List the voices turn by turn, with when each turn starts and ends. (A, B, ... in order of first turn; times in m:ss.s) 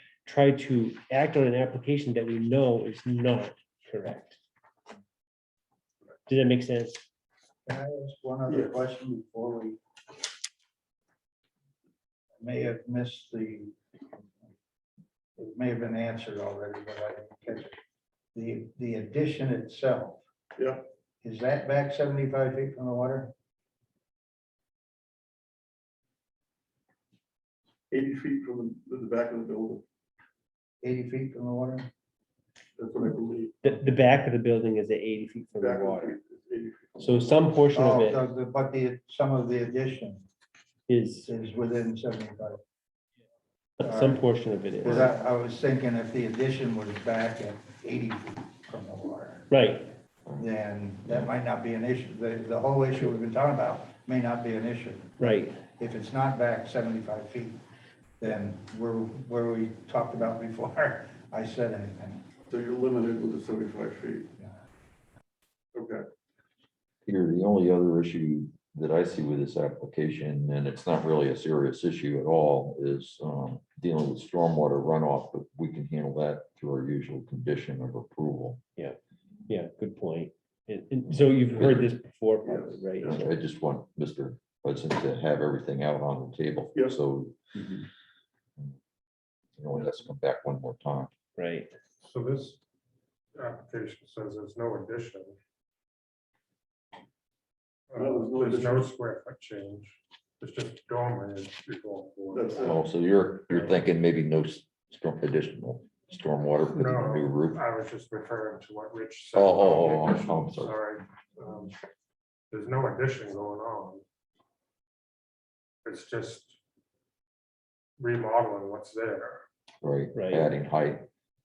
0:00.2-0:04.4 A
0:06.3-0:07.0 A
0:07.7-0:09.8 B
0:08.5-0:08.8 C
0:12.4-0:13.8 B
0:15.4-0:17.8 B
0:18.4-0:20.2 B
0:20.6-0:20.9 C
0:21.2-0:23.3 B
0:27.9-0:29.8 C
0:30.8-0:31.9 B
0:32.8-0:33.6 C
0:33.6-0:36.2 A
0:35.6-0:37.4 C
0:37.0-0:38.2 A
0:37.7-0:40.2 B
0:40.9-0:41.3 A
0:41.3-0:42.6 B
0:43.8-0:45.1 A
0:43.8-0:44.2 B
0:44.8-0:49.5 B
0:49.5-0:49.9 A
0:50.4-0:55.2 B
0:55.2-0:55.6 A
0:55.8-0:57.6 B
0:58.2-1:02.2 B
1:02.5-1:04.3 C
1:05.7-1:06.1 C
1:07.0-1:18.6 D
1:18.8-1:23.2 A
1:21.6-1:21.9 D
1:22.4-1:23.3 C
1:23.0-1:27.4 D
1:26.8-1:27.0 C
1:29.6-1:31.1 D
1:31.4-1:31.7 A
1:32.0-1:32.6 E
1:33.4-1:35.4 E
1:37.9-1:42.8 E
1:37.9-1:38.9 C
1:42.3-1:42.8 C
1:42.6-1:47.6 D
1:46.7-1:51.8 E
1:49.3-1:50.8 D
1:52.5-1:54.0 E
1:55.8-1:56.6 E
1:58.0-1:59.4 E
1:59.8-2:01.1 D
2:00.1-2:00.5 A